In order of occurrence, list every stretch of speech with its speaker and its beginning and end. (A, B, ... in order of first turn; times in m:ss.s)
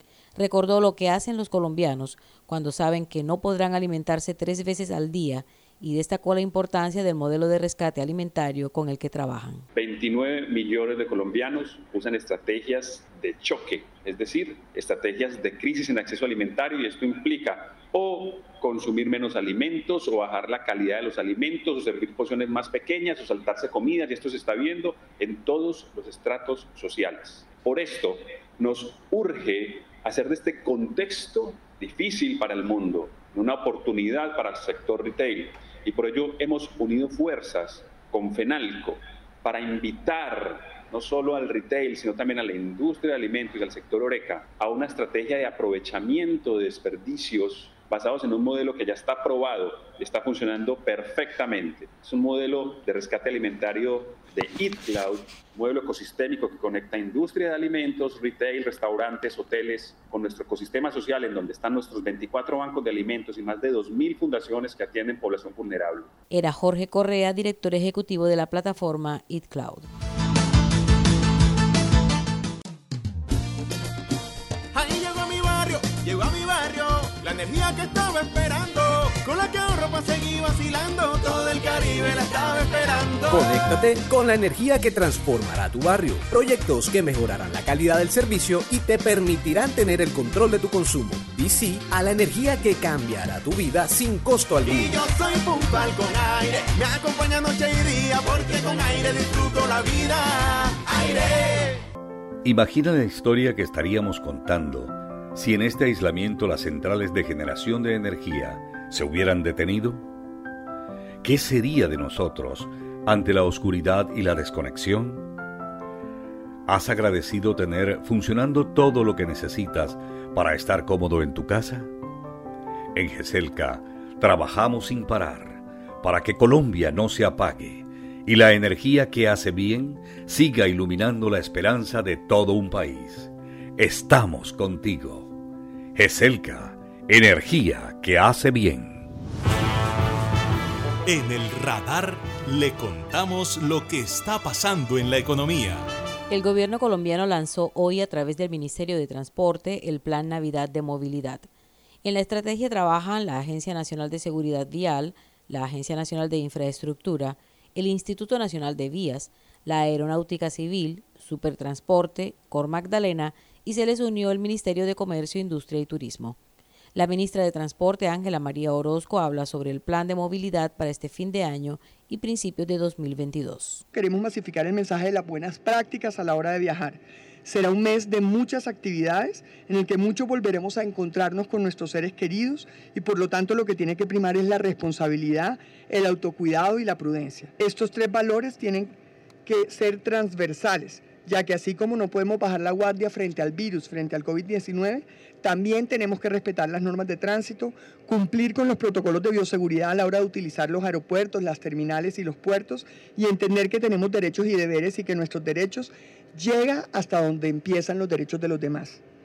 0:00.4-0:09.6 A
0:09.7-1:06.1 B
1:06.3-1:09.9 A
1:14.7-1:23.6 C
1:23.3-1:35.0 D
1:34.7-1:41.8 C
1:42.4-1:50.0 E
1:51.2-1:55.3 E
1:56.7-2:01.9 E
2:02.9-2:15.3 E
2:15.9-2:19.1 E
2:21.0-2:25.9 F
2:26.3-2:31.5 A
2:32.0-2:46.4 A
2:46.9-2:53.8 A
2:53.9-3:08.9 G
3:09.4-3:29.0 G